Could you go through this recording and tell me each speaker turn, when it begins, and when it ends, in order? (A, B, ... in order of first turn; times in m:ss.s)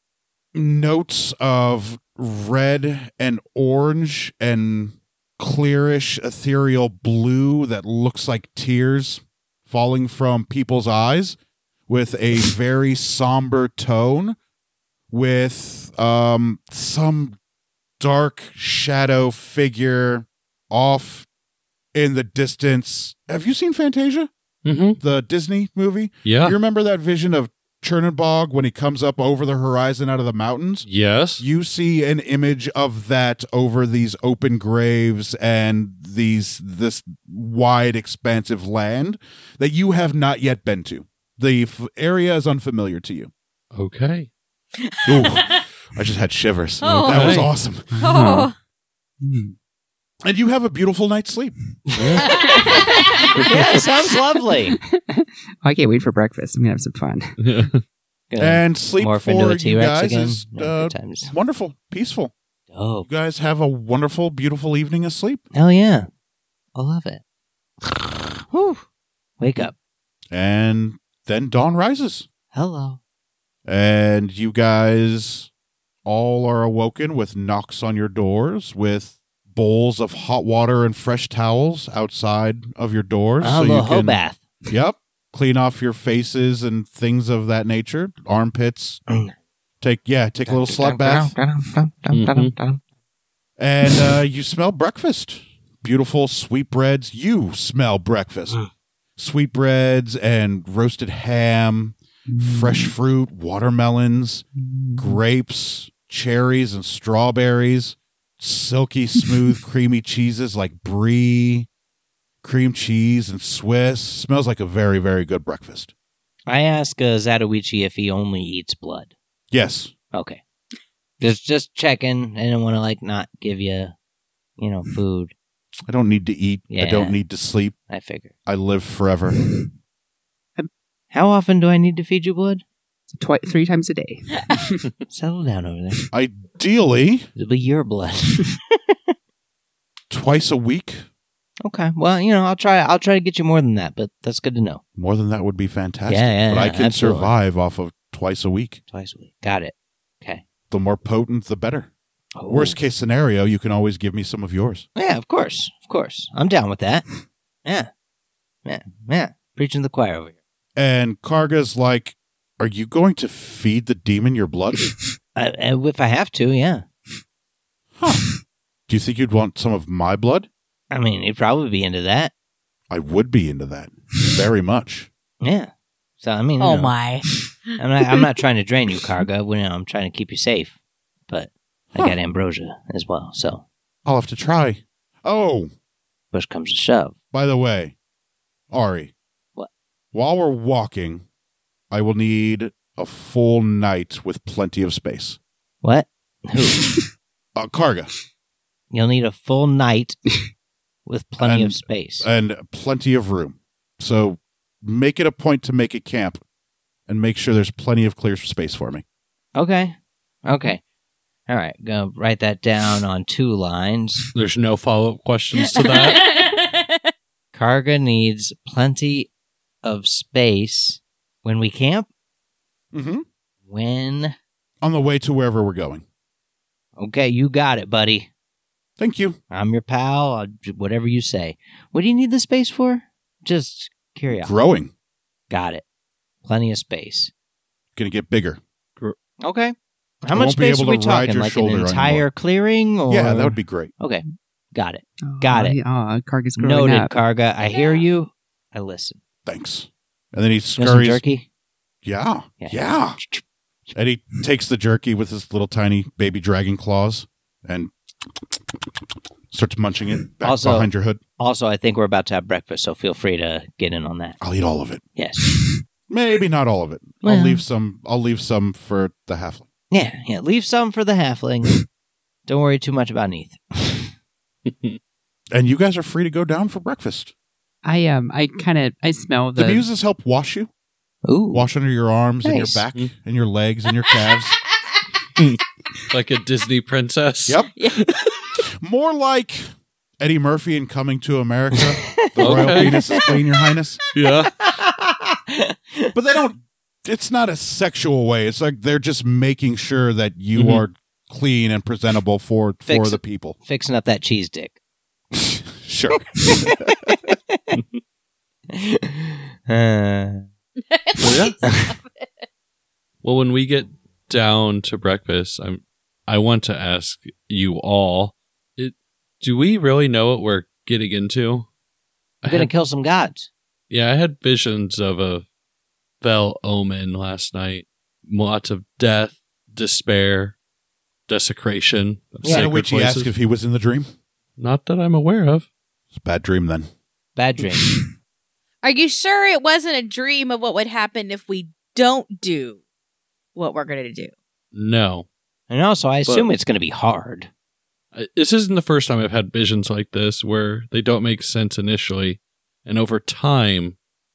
0:00.5-0:11.4 A
0:11.9-0:14.4 A
0:15.1-0:17.4 A
0:18.0-0:21.3 A
0:21.9-0:24.3 A
0:24.6-0:25.0 B
0:25.0-0:30.9 A
0:26.2-0:26.6 B
0:30.8-0:31.4 B
0:31.4-0:43.3 A
0:43.7-0:44.3 B
0:44.8-0:45.6 C
0:45.0-0:47.9 A
0:46.8-0:47.4 C
0:47.1-0:47.5 B
0:47.9-0:48.5 D
0:48.0-0:48.5 C
0:49.2-0:49.5 D
0:50.2-0:51.5 A
0:51.9-0:52.8 E
0:51.9-0:52.3 B
0:52.4-0:53.4 C
0:53.4-0:53.7 B
0:53.4-0:54.8 E
0:54.8-0:57.3 D
0:57.4-0:57.8 B
0:58.3-1:01.3 E
0:58.4-1:02.3 A
1:02.7-1:03.1 E
1:03.0-1:05.4 A
1:05.5-1:06.1 E
1:06.7-1:07.2 E
1:07.9-1:08.8 E
1:09.4-1:09.7 E
1:10.3-1:12.3 A
1:12.5-1:13.0 E
1:13.6-1:15.5 A
1:16.0-1:29.0 A
1:23.4-1:24.4 E
1:29.1-1:29.3 E
1:29.8-1:31.3 A
1:30.4-1:32.8 E
1:32.1-1:32.5 B
1:33.6-1:38.6 A
1:39.2-1:44.4 A
1:42.3-1:42.9 D
1:44.6-1:45.2 D
1:45.0-1:51.7 A
1:52.4-1:55.9 A
1:56.5-1:59.1 E
1:59.5-1:59.9 A
2:00.1-2:00.4 E
2:01.2-2:03.9 E
2:04.6-2:05.3 E
2:05.9-2:07.8 A
2:06.7-2:07.2 E
2:07.9-2:08.3 E
2:08.4-2:09.4 A
2:11.1-2:12.6 E
2:13.1-2:14.8 D
2:15.1-2:16.0 E
2:16.1-2:17.3 A
2:17.3-2:19.0 E
2:20.1-2:21.0 A
2:21.6-2:24.8 E
2:25.0-2:28.8 A
2:26.1-2:27.3 E
2:28.9-2:30.4 E
2:30.7-2:31.9 A
2:32.4-2:32.8 E
2:32.5-2:34.9 A
2:35.0-2:37.9 E
2:38.6-2:40.3 E
2:40.8-2:44.9 A
2:45.3-2:46.8 E
2:48.0-2:48.3 A
2:48.9-2:50.5 A
2:50.9-2:52.3 E
2:52.9-2:55.1 A
2:55.4-2:56.9 E
2:56.6-2:57.8 C
2:57.8-3:00.8 E
3:01.3-3:03.6 E
3:04.0-3:05.7 A
3:06.3-3:07.1 E
3:07.3-3:07.9 A
3:08.7-3:09.1 A
3:10.1-3:11.2 A
3:11.9-3:15.4 A
3:15.8-3:16.9 E
3:17.6-3:18.1 A
3:18.9-3:20.3 E
3:21.0-3:22.3 E
3:21.4-3:26.4 A
3:27.1-3:29.0 A
3:29.5-3:30.8 E
3:31.5-3:34.3 E
3:34.3-3:36.3 B
3:35.6-3:36.8 C
3:37.5-3:39.3 E
3:39.8-3:42.1 E
3:42.9-3:43.2 A
3:43.7-3:44.3 E
3:44.8-3:46.0 A
3:47.0-3:48.3 E
3:49.0-3:49.4 A
3:49.5-3:54.5 E
3:54.3-3:54.9 A
3:55.5-3:55.8 E
3:56.4-3:57.3 E
3:57.9-3:58.6 A
3:59.4-4:05.8 E
4:00.3-4:02.2 A
4:03.1-4:03.9 A
4:05.2-4:07.1 D
4:06.6-4:09.2 E
4:07.6-4:08.0 C
4:09.4-4:11.2 A
4:10.8-4:11.4 E
4:12.0-4:13.2 A
4:12.6-4:13.4 E
4:13.9-4:17.9 A
4:19.5-4:21.2 A
4:20.4-4:24.4 E
4:24.4-4:25.0 A
4:25.2-4:25.6 E
4:26.1-4:29.7 A
4:27.2-4:27.6 E
4:29.9-4:31.8 E
4:32.5-4:34.1 E
4:34.6-4:35.0 B
4:35.5-4:37.3 A
4:37.8-4:39.8 D
4:39.6-4:40.7 A
4:41.2-4:41.7 E
4:41.5-4:44.6 A
4:42.4-4:42.8 E
4:46.1-4:48.3 B
4:47.8-4:48.4 C
4:48.8-4:49.6 A
4:50.2-4:54.0 A
4:51.9-4:53.3 E
4:52.4-4:53.0 B
4:54.1-4:54.5 B
4:54.5-4:56.1 E
4:56.1-5:03.6 A
5:00.6-5:00.8 B
5:02.9-5:04.7 E
5:05.3-5:07.2 A
5:07.1-5:07.6 E
5:08.7-5:10.4 E
5:10.9-5:12.3 C
5:11.2-5:11.6 B
5:11.6-5:11.9 E
5:13.2-5:21.7 B
5:22.4-5:22.7 B
5:22.5-5:23.5 E
5:23.9-5:25.4 B
5:26.2-5:30.6 B
5:31.3-5:33.3 B
5:32.4-5:32.7 E
5:32.4-5:34.1 A
5:34.6-5:35.6 B
5:36.1-5:36.9 A
5:37.4-5:37.9 E
5:38.8-5:42.8 C
5:43.6-5:44.3 C
5:44.7-5:45.2 B
5:45.7-5:47.5 E
5:48.1-5:54.0 B